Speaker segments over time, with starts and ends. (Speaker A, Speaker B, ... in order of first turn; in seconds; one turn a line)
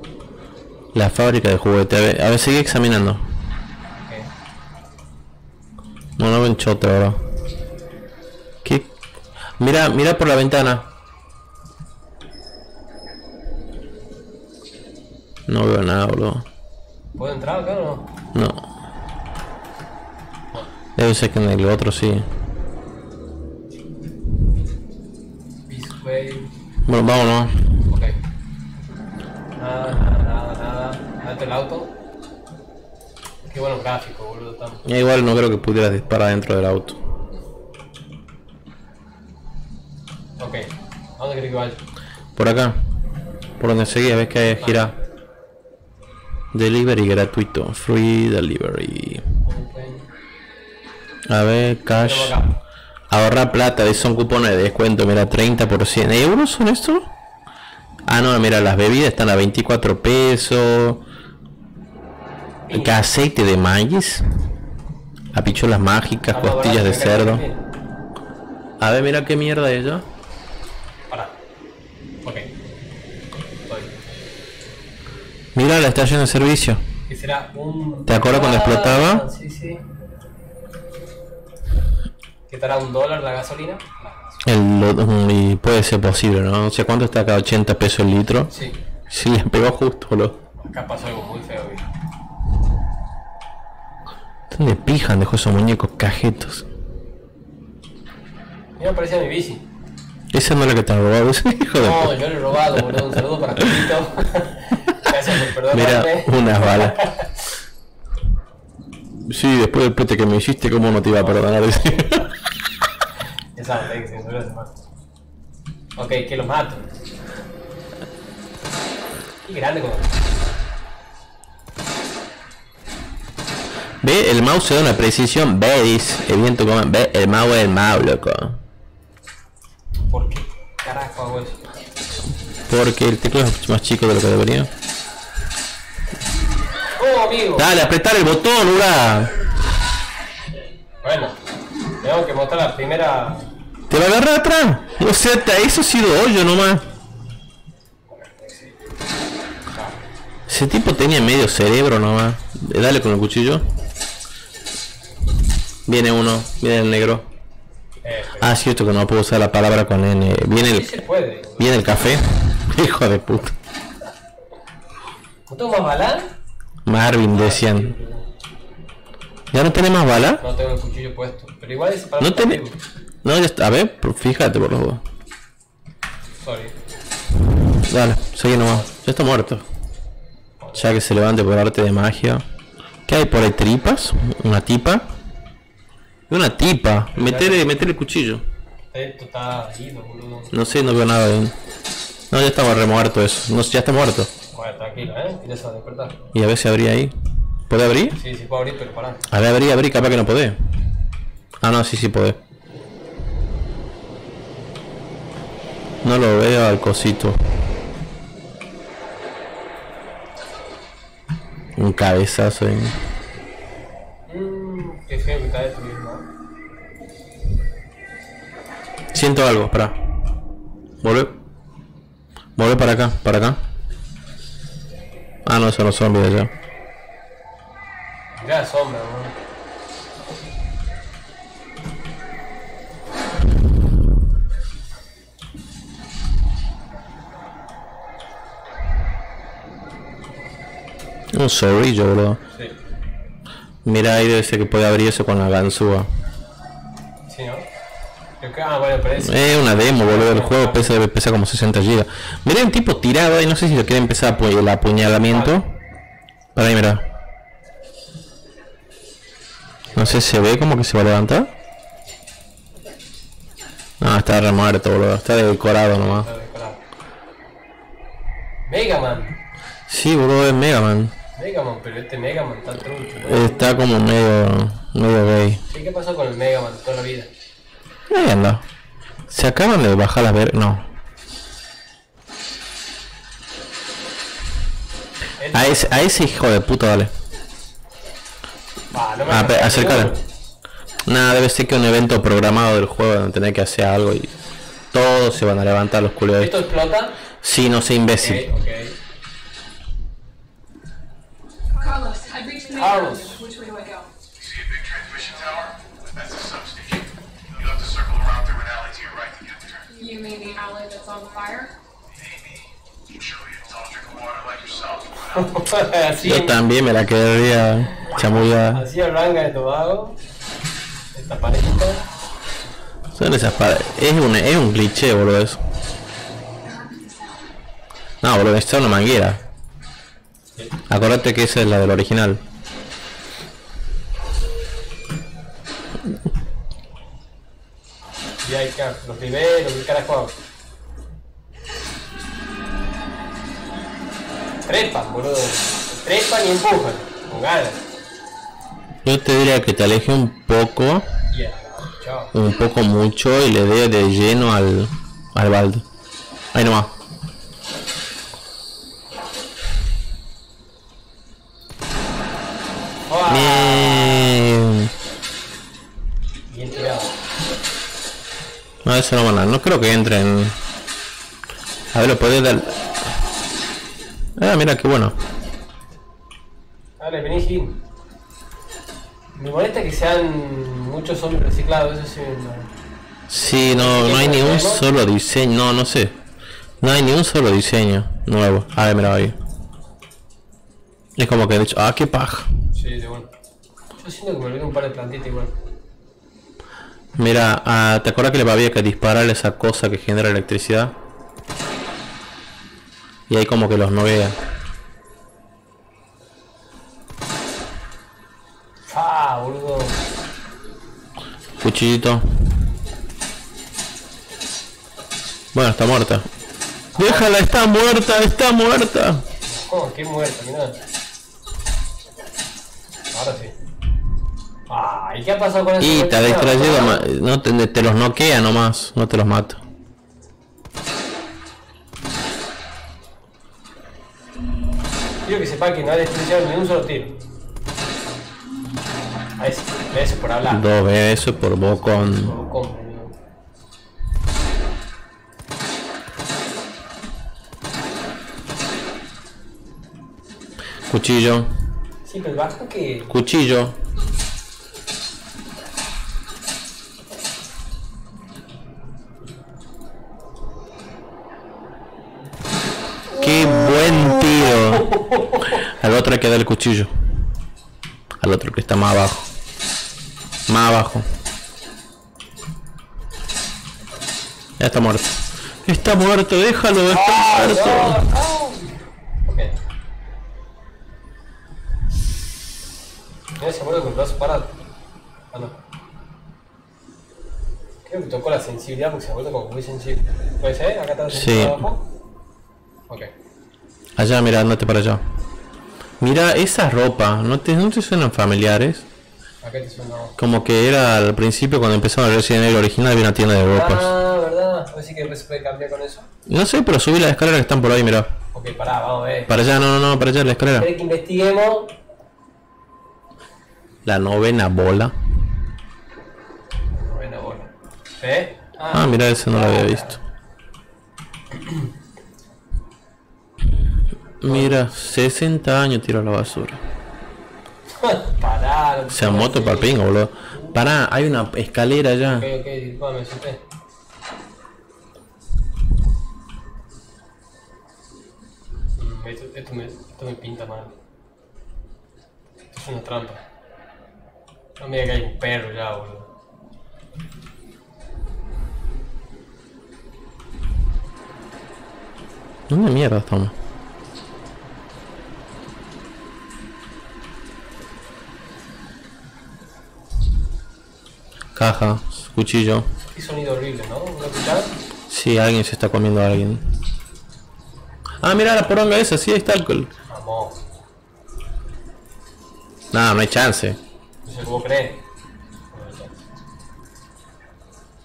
Speaker A: 0.9-3.3
Speaker A: 6.2-7.2
Speaker A: 8.6-8.9
Speaker A: 9.6-10.9
Speaker A: 15.5-16.4
Speaker B: 17.1-18.1
Speaker A: 18.3-18.6
Speaker A: 21.0-22.3
Speaker B: 25.7-26.5
Speaker A: 26.9-27.8
Speaker B: 27.9-28.2
Speaker B: 29.6-31.9
Speaker B: 33.5-34.8
Speaker A: 34.8-37.0
Speaker B: 40.4-41.8
Speaker A: 42.4-42.8
Speaker A: 43.6-44.9
Speaker B: 44.5-44.9
Speaker A: 46.5-49.3
Speaker B: 49.4-50.1
Speaker A: 51.3-52.4
Speaker B: 52.0-52.6
Speaker A: 53.1-57.1
Speaker A: 58.1-61.0
Speaker B: 62.7-63.0
Speaker A: 62.7-64.2
Speaker A: 65.3-67.4
Speaker B: 66.3-67.6
Speaker A: 68.8-70.0
Speaker B: 73.7-74.0
Speaker A: 75.5-76.8
Speaker B: 77.1-79.8
Speaker A: 78.1-79.2
Speaker B: 82.5-84.5
Speaker A: 84.4-88.5
Speaker B: 88.5-88.8
Speaker A: 89.1-90.4
Speaker B: 90.6-91.9
Speaker A: 94.5-96.7
Speaker B: 98.8-99.6
Speaker A: 100.3-103.0
Speaker B: 101.8-107.3
Speaker A: 105.7-107.0
Speaker A: 109.2-112.2
Speaker B: 111.1-112.2
Speaker B: 113.5-114.7
Speaker B: 116.0-116.8
Speaker B: 119.4-120.2
Speaker A: 124.0-128.6
Speaker B: 130.1-131.6
Speaker A: 132.7-134.7
Speaker B: 137.0-137.7
Speaker A: 137.6-139.3
Speaker B: 141.0-141.4
Speaker B: 142.0-143.5
Speaker A: 143.9-146.9
Speaker B: 148.1-148.7
Speaker B: 149.7-150.0
Speaker A: 150.5-153.7
Speaker A: 155.9-157.3
Speaker B: 158.0-158.5
Speaker A: 158.4-160.9
Speaker B: 160.5-161.7
Speaker A: 161.6-163.6
Speaker B: 165.5-166.3
Speaker A: 166.8-167.9
Speaker B: 167.3-168.2
Speaker A: 169.5-170.4
Speaker B: 170.4-172.8
Speaker A: 172.2-172.6
Speaker A: 173.2-175.0
Speaker B: 176.4-176.7
Speaker A: 177.5-179.6
Speaker B: 180.6-180.9
Speaker A: 180.7-182.4
Speaker A: 183.1-185.1
Speaker A: 186.3-188.4
Speaker B: 187.1-187.6
Speaker B: 188.9-190.5
Speaker A: 190.5-191.6
Speaker A: 192.3-194.3
Speaker B: 194.5-196.2
Speaker A: 196.3-197.1
Speaker A: 197.7-198.2
Speaker B: 198.1-199.2
Speaker A: 199.3-200.6
Speaker A: 201.6-202.4
Speaker A: 206.0-207.4
Speaker A: 211.8-213.0
Speaker B: 214.3-216.2
Speaker A: 219.1-220.0
Speaker A: 221.0-221.4
Speaker A: 222.6-223.6
Speaker A: 225.4-226.5
Speaker B: 228.3-229.3
Speaker A: 241.3-242.4
Speaker A: 243.8-246.1
Speaker B: 247.3-247.7
Speaker B: 248.4-250.9
Speaker A: 249.2-255.7
Speaker B: 255.3-255.6
Speaker A: 256.5-257.0
Speaker B: 259.8-260.2
Speaker A: 259.9-261.5
Speaker A: 264.0-266.3
Speaker B: 265.9-266.8
Speaker B: 268.7-269.4
Speaker A: 269.9-271.1
Speaker B: 271.4-273.8
Speaker A: 273.2-275.6
Speaker B: 275.7-277.3
Speaker A: 278.1-278.6
Speaker A: 279.3-280.9
Speaker B: 285.4-286.0
Speaker A: 285.5-287.1
Speaker B: 288.9-290.2
Speaker A: 289.3-290.1
Speaker A: 291.1-294.3
Speaker A: 294.9-296.5
Speaker B: 296.4-297.2
Speaker A: 297.4-298.5
Speaker B: 298.2-298.9
Speaker C: 301.8-304.1
Speaker B: 302.7-303.4
Speaker D: 304.4-309.9
Speaker C: 309.9-311.7
Speaker D: 312.3-312.6
Speaker D: 313.2-315.5
Speaker B: 315.3-316.6
Speaker A: 316.2-318.8
Speaker B: 318.0-320.2
Speaker B: 321.1-322.0
Speaker A: 323.1-325.6
Speaker C: 326.6-327.3
Speaker A: 328.2-329.4
Speaker A: 330.9-332.4
Speaker B: 338.4-340.4
Speaker B: 344.6-347.8
Speaker A: 349.0-351.1
Speaker B: 351.3-352.3
Speaker A: 352.3-355.8
Speaker A: 356.5-356.9
Speaker B: 363.1-364.5
Speaker A: 363.3-364.9
Speaker B: 366.5-367.1
Speaker A: 368.8-370.6
Speaker A: 371.9-373.1
Speaker A: 374.4-375.2
Speaker B: 377.0-377.8
Speaker B: 379.3-382.7
Speaker A: 383.3-386.1
Speaker B: 383.6-384.8
Speaker A: 386.8-389.4
Speaker A: 391.2-392.5
Speaker B: 392.7-393.3
Speaker B: 394.0-395.5
Speaker A: 397.2-400.9
Speaker A: 403.3-404.4
Speaker B: 408.9-410.1
Speaker A: 411.6-412.2
Speaker A: 415.5-416.3
Speaker A: 416.9-419.2
Speaker B: 419.5-420.8
Speaker B: 423.1-423.5
Speaker B: 424.7-427.0
Speaker A: 425.8-429.6
Speaker B: 435.2-437.2
Speaker B: 439.4-440.7
Speaker A: 440.5-442.3
Speaker B: 441.5-443.1
Speaker A: 450.9-451.5
Speaker B: 452.0-453.1
Speaker A: 453.1-453.8
Speaker B: 463.1-465.5
Speaker A: 463.2-464.9
Speaker A: 465.5-466.9
Speaker A: 468.2-469.3
Speaker A: 470.5-471.1
Speaker A: 474.6-478.0
Speaker B: 476.9-479.6
Speaker B: 483.4-484.5
Speaker B: 487.8-491.8
Speaker A: 491.1-491.6
Speaker A: 494.0-495.0
Speaker A: 496.0-498.9
Speaker B: 499.4-500.2
Speaker A: 500.2-503.9
Speaker B: 503.5-506.1
Speaker A: 506.2-508.1
Speaker B: 508.3-509.3
Speaker A: 509.3-510.7
Speaker B: 510.6-511.8
Speaker A: 513.8-515.0
Speaker B: 516.7-520.0
Speaker A: 518.7-520.0
Speaker A: 524.2-526.6
Speaker B: 524.2-524.6
Speaker B: 527.8-529.8
Speaker A: 528.9-532.3
Speaker B: 530.3-530.6
Speaker B: 532.1-533.4
Speaker B: 538.8-540.7
Speaker B: 542.5-543.2
Speaker B: 544.6-546.1
Speaker A: 552.5-553.3
Speaker A: 561.4-562.7
Speaker B: 562.9-564.5
Speaker A: 564.9-566.5
Speaker A: 568.0-569.7
Speaker B: 569.9-570.4
Speaker A: 572.7-573.6
Speaker B: 574.0-574.8
Speaker B: 575.5-576.0